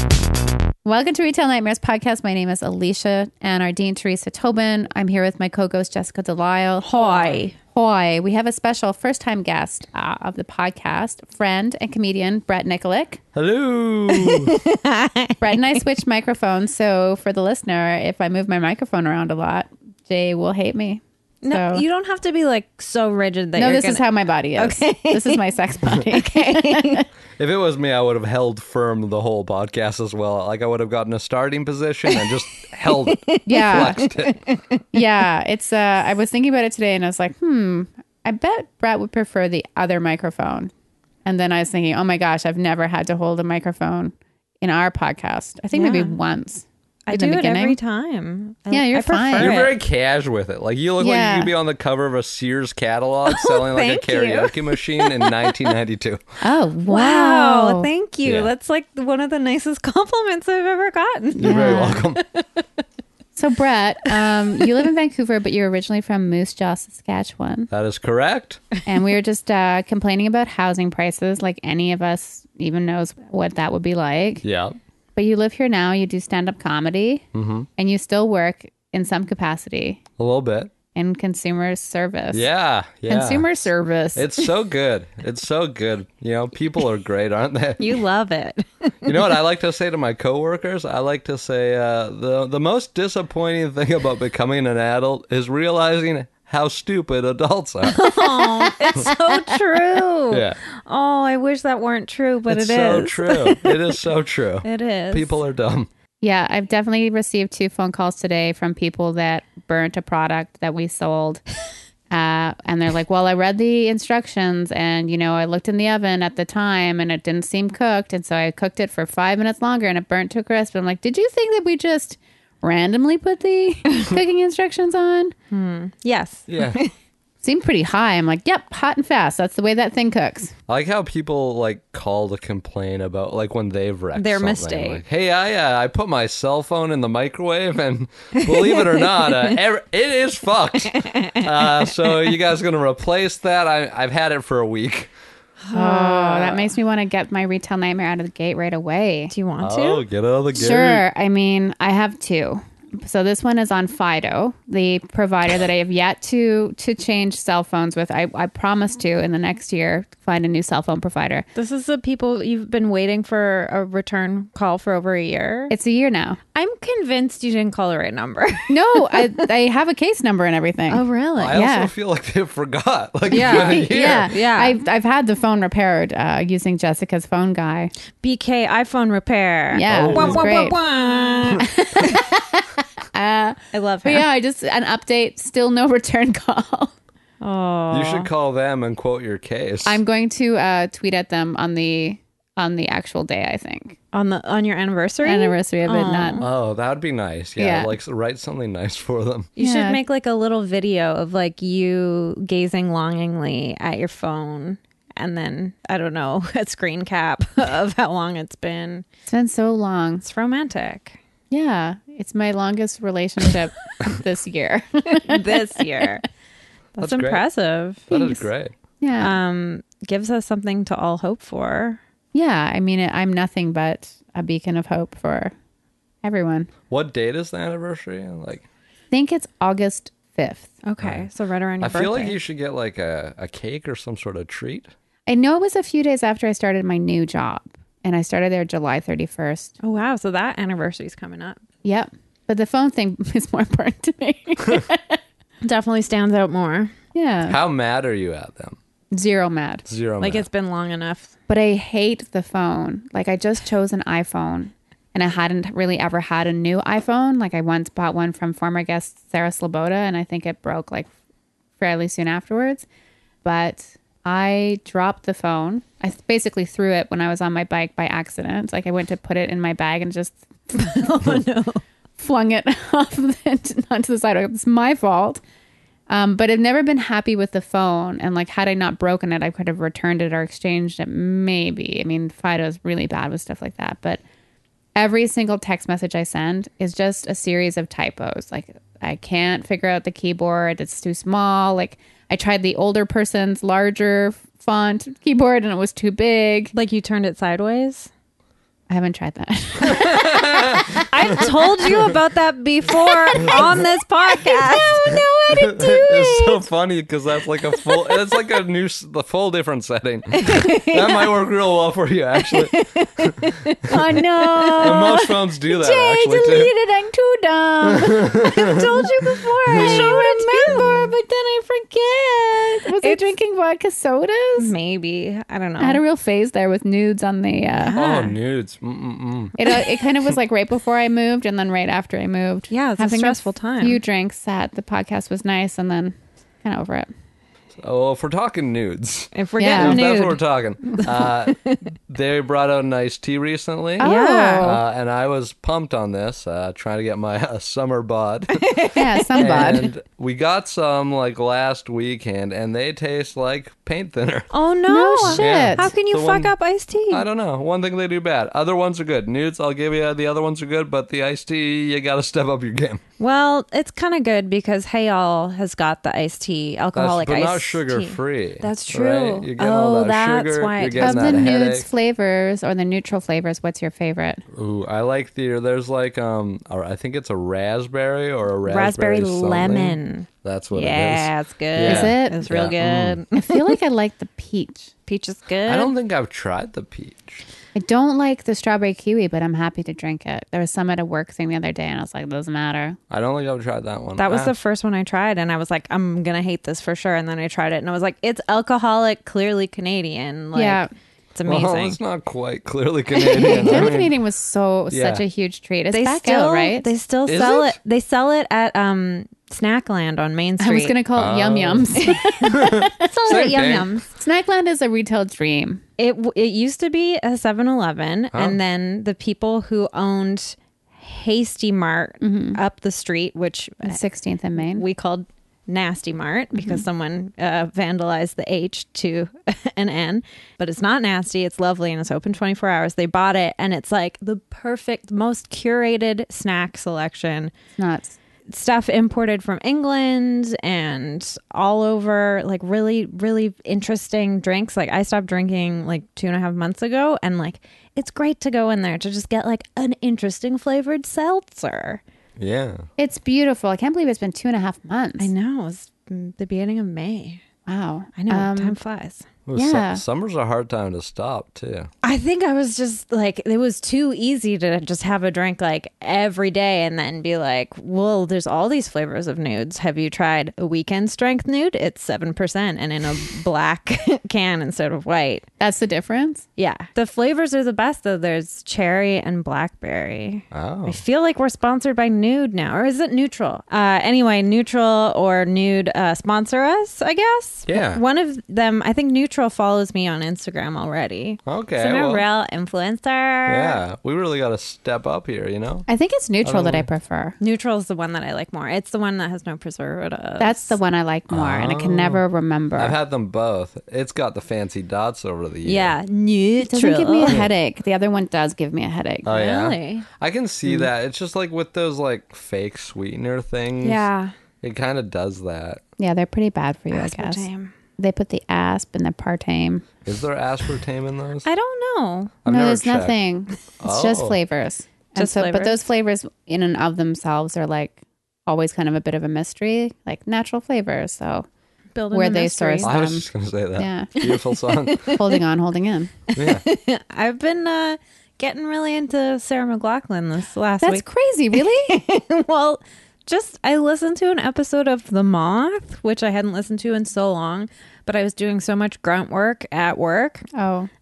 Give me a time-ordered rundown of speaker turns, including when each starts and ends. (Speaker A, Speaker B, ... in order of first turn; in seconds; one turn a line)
Speaker A: 0.8-6.9
Speaker B: 6.8-7.6
Speaker A: 7.7-13.2
Speaker C: 13.3-14.6
Speaker B: 14.1-15.8
Speaker A: 15.4-21.8
Speaker B: 21.4-27.1
Speaker A: 23.6-27.1
Speaker C: 27.4-34.4
Speaker B: 32.9-34.8
Speaker A: 33.5-34.0
Speaker A: 34.9-40.7
Speaker A: 41.2-47.8
Speaker B: 45.7-46.2
Speaker B: 47.1-49.7
Speaker A: 48.7-49.7
Speaker C: 49.4-56.2
Speaker A: 51.0-51.5
Speaker B: 53.3-55.5
Speaker A: 56.4-57.9
Speaker B: 56.9-62.4
Speaker A: 61.4-62.0
Speaker C: 61.4-62.2
Speaker A: 63.4-67.7
Speaker C: 67.7-68.6
Speaker A: 68.8-74.4
Speaker C: 74.4-74.8
Speaker A: 75.2-77.2
Speaker C: 77.3-77.7
Speaker A: 77.8-80.0
Speaker C: 80.2-80.7
Speaker A: 80.9-82.5
Speaker C: 82.3-88.0
Speaker A: 83.1-84.5
Speaker B: 87.8-89.3
Speaker C: 89.0-98.1
Speaker B: 97.8-103.7
Speaker A: 98.4-99.4
Speaker C: 100.3-100.6
Speaker C: 102.5-105.9
Speaker B: 104.6-105.3
Speaker A: 106.2-111.4
Speaker A: 112.1-125.3
Speaker B: 125.5-126.9
Speaker C: 126.5-126.8
Speaker A: 127.4-130.5
Speaker C: 130.7-145.1
Speaker B: 134.1-135.0
Speaker B: 138.3-139.5
Speaker B: 140.9-142.2
Speaker B: 145.6-146.7
Speaker A: 145.7-149.3
Speaker B: 149.3-150.0
Speaker C: 149.6-151.0
Speaker A: 150.5-161.4
Speaker B: 161.5-165.7
Speaker A: 165.7-166.4
Speaker B: 166.5-169.4
Speaker A: 168.7-171.9
Speaker B: 170.9-171.6
Speaker C: 171.4-174.3
Speaker B: 173.3-174.8
Speaker A: 173.3-177.9
Speaker B: 178.2-182.1
Speaker A: 179.7-180.8
Speaker C: 179.9-180.5
Speaker A: 181.8-186.9
Speaker B: 183.7-184.2
Speaker B: 187.4-188.3
Speaker C: 187.9-190.0
Speaker A: 189.8-194.0
Speaker B: 194.1-196.5
Speaker A: 195.2-196.4
Speaker C: 196.4-199.5
Speaker A: 197.6-197.9
Speaker B: 199.6-209.1
Speaker A: 199.6-200.0
Speaker A: 209.3-210.2
Speaker B: 210.2-211.2
Speaker A: 211.5-216.1
Speaker B: 215.1-216.2
Speaker B: 217.0-218.1
Speaker C: 217.0-217.4
Speaker C: 218.1-218.8
Speaker A: 218.1-218.4
Speaker A: 219.0-219.3
Speaker B: 219.2-222.0
Speaker A: 222.3-225.5
Speaker A: 226.2-226.7
Speaker C: 226.9-228.6
Speaker A: 229.1-230.8
Speaker B: 230.8-232.3
Speaker C: 231.0-231.3
Speaker C: 231.8-234.9
Speaker A: 235.3-239.7
Speaker B: 239.8-241.6
Speaker A: 241.8-245.2
Speaker B: 245.6-246.9
Speaker A: 247.1-247.6
Speaker C: 247.5-248.8
Speaker A: 249.1-249.8
Speaker C: 249.9-250.4
Speaker B: 250.2-251.3
Speaker A: 251.5-261.1
Speaker A: 261.8-262.8
Speaker A: 263.4-271.0
Speaker B: 270.7-271.8
Speaker A: 272.2-275.4
Speaker A: 276.1-284.2
Speaker A: 284.9-296.7
Speaker B: 296.7-298.1
Speaker A: 298.9-301.5
Speaker C: 299.8-301.3
Speaker B: 301.1-305.1
Speaker A: 303.3-303.7
Speaker C: 303.4-303.7
Speaker A: 304.4-306.6
Speaker C: 305.1-313.4
Speaker B: 310.3-311.3
Speaker B: 312.5-315.1
Speaker A: 313.9-324.7
Speaker C: 314.8-316.7
Speaker C: 317.8-318.8
Speaker B: 318.4-321.1
Speaker C: 319.7-320.9
Speaker B: 323.0-323.3
Speaker B: 324.6-326.0
Speaker A: 325.8-328.0
Speaker B: 327.7-328.4
Speaker C: 327.9-329.6
Speaker A: 329.6-337.1
Speaker B: 329.6-330.0
Speaker B: 332.7-334.0
Speaker C: 337.8-348.7
Speaker B: 339.3-340.4
Speaker A: 339.6-340.1
Speaker B: 341.0-341.8
Speaker B: 344.0-344.7
Speaker A: 344.0-344.8
Speaker B: 348.5-349.8
Speaker A: 348.9-349.9
Speaker C: 349.4-354.5
Speaker B: 354.5-357.2
Speaker A: 354.9-355.9
Speaker C: 355.2-356.5
Speaker C: 357.1-363.0
Speaker B: 363.2-371.4
Speaker C: 366.9-371.9
Speaker A: 371.0-374.4
Speaker C: 374.5-383.2
Speaker B: 378.6-383.8
Speaker A: 381.8-382.4
Speaker A: 383.3-384.9
Speaker B: 385.1-385.9
Speaker C: 385.6-387.4
Speaker A: 387.8-393.0
Speaker C: 393.1-394.5
Speaker B: 394.2-400.8
Speaker A: 400.5-400.9
Speaker B: 401.3-402.0
Speaker C: 401.4-404.1
Speaker B: 403.1-403.9
Speaker A: 403.4-406.9
Speaker C: 404.9-405.2
Speaker B: 405.9-411.0
Speaker C: 407.3-407.8
Speaker A: 410.6-413.1
Speaker C: 411.1-414.0
Speaker B: 412.0-414.1
Speaker A: 414.1-415.8
Speaker B: 416.0-424.0
Speaker C: 418.3-418.6
Speaker A: 422.2-422.6
Speaker A: 423.8-424.8
Speaker B: 424.6-437.5
Speaker A: 426.6-426.8
Speaker A: 437.8-438.2
Speaker B: 438.5-452.0
Speaker C: 452.4-452.8
Speaker A: 453.0-455.3
Speaker B: 455.2-457.4
Speaker A: 457.6-458.8
Speaker B: 458.1-459.2
Speaker C: 459.4-461.9
Speaker A: 459.5-460.0
Speaker B: 462.0-475.4
Speaker A: 475.6-476.4
Speaker B: 476.6-493.8
Speaker C: 480.5-481.0
Speaker C: 487.7-488.0
Speaker C: 491.4-492.2
Speaker C: 493.5-495.9
Speaker A: 495.9-497.4
Speaker C: 496.4-496.9
Speaker B: 497.4-500.8
Speaker A: 500.4-503.0
Speaker C: 501.3-502.2
Speaker C: 502.8-505.9
Speaker B: 505.6-507.4
Speaker A: 506.6-509.3
Speaker C: 509.2-514.0
Speaker B: 509.3-510.1
Speaker B: 513.8-514.3
Speaker C: 514.6-515.8
Speaker A: 516.0-517.5
Speaker B: 516.9-517.7
Speaker A: 518.0-519.9
Speaker C: 520.0-521.5
Speaker B: 521.5-522.4
Speaker C: 522.5-523.1
Speaker A: 522.5-531.5
Speaker C: 523.8-524.4
Speaker B: 525.2-525.8
Speaker B: 532.0-532.9
Speaker A: 532.1-533.2
Speaker C: 532.8-535.1
Speaker A: 533.8-534.1
Speaker B: 534.2-535.3
Speaker A: 535.1-536.1
Speaker B: 536.3-550.5
Speaker C: 536.4-536.6
Speaker A: 540.8-542.0
Speaker A: 550.5-550.9